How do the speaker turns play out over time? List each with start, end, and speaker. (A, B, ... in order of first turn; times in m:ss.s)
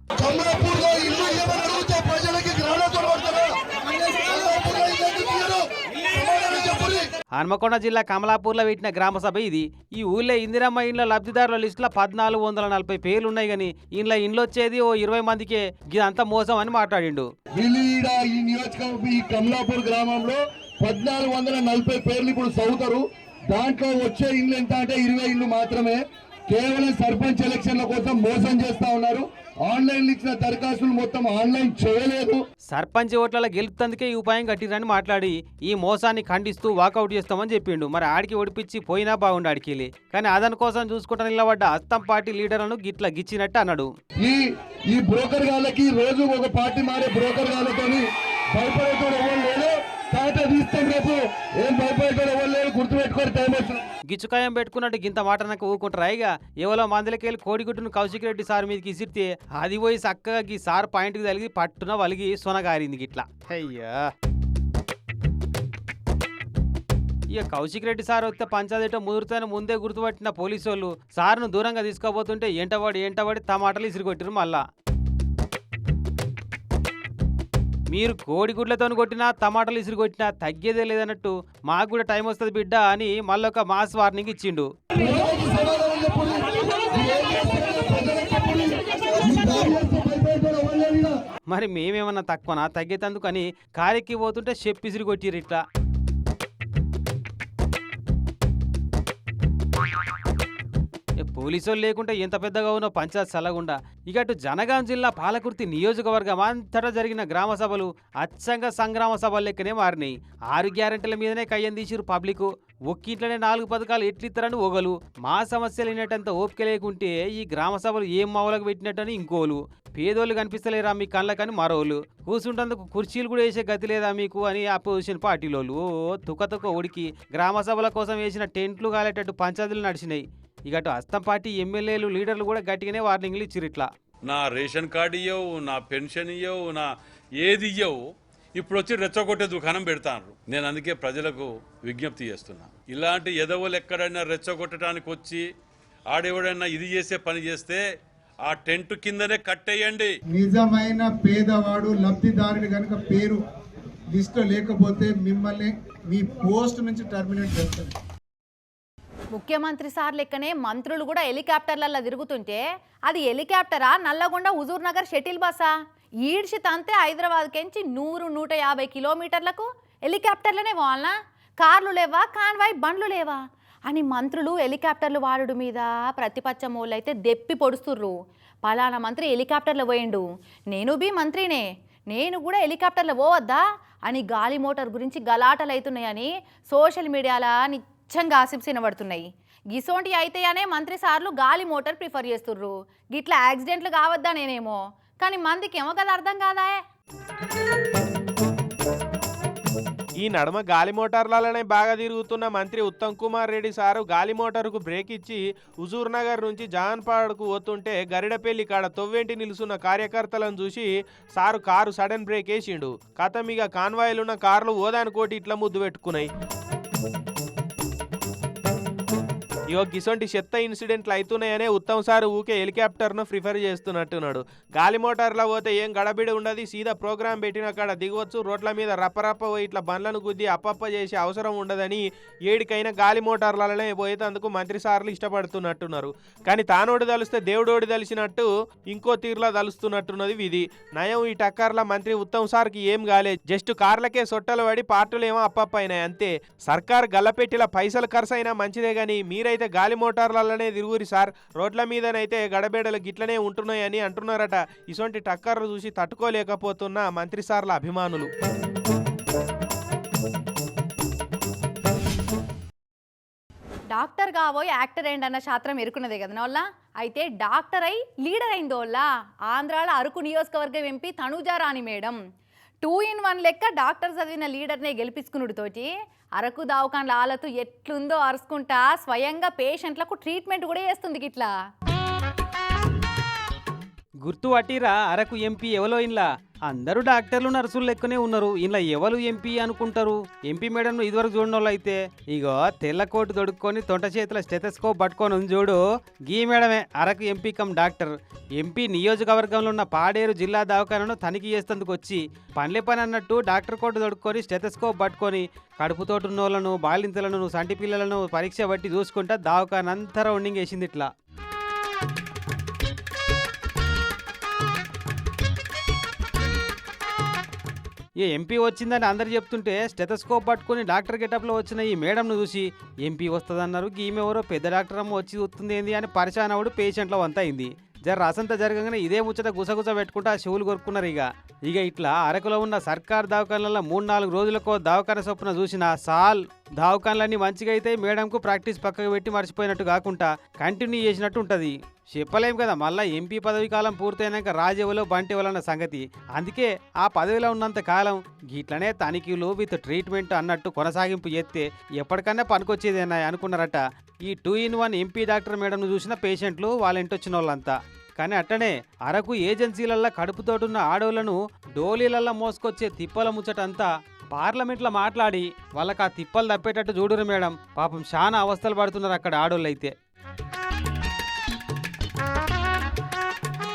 0:00.2-0:07.1 A
0:07.4-0:17.3 B
0:17.6-0:32.4 A
0:32.7-0:43.9 B
0:44.2-0:53.8 A
0:54.1-1:04.1 B
1:07.3-1:14.6 B
1:17.9-1:24.7 B
1:25.0-1:31.2 A
1:31.5-1:35.6 B
1:41.2-2:13.9 B
2:14.3-2:18.0 C
2:18.6-2:25.4 C
2:26.1-2:27.8 C
2:28.4-2:30.1 C
2:30.3-2:33.4 D
2:34.1-2:37.9 D
2:39.3-2:45.7 E
2:46.2-3:16.8 E
3:20.2-3:36.3 F
3:39.7-4:18.3 F
4:23.9-4:32.2 E
4:32.8-4:41.5 E
4:44.2-5:11.1 B
5:18.2-6:09.9 B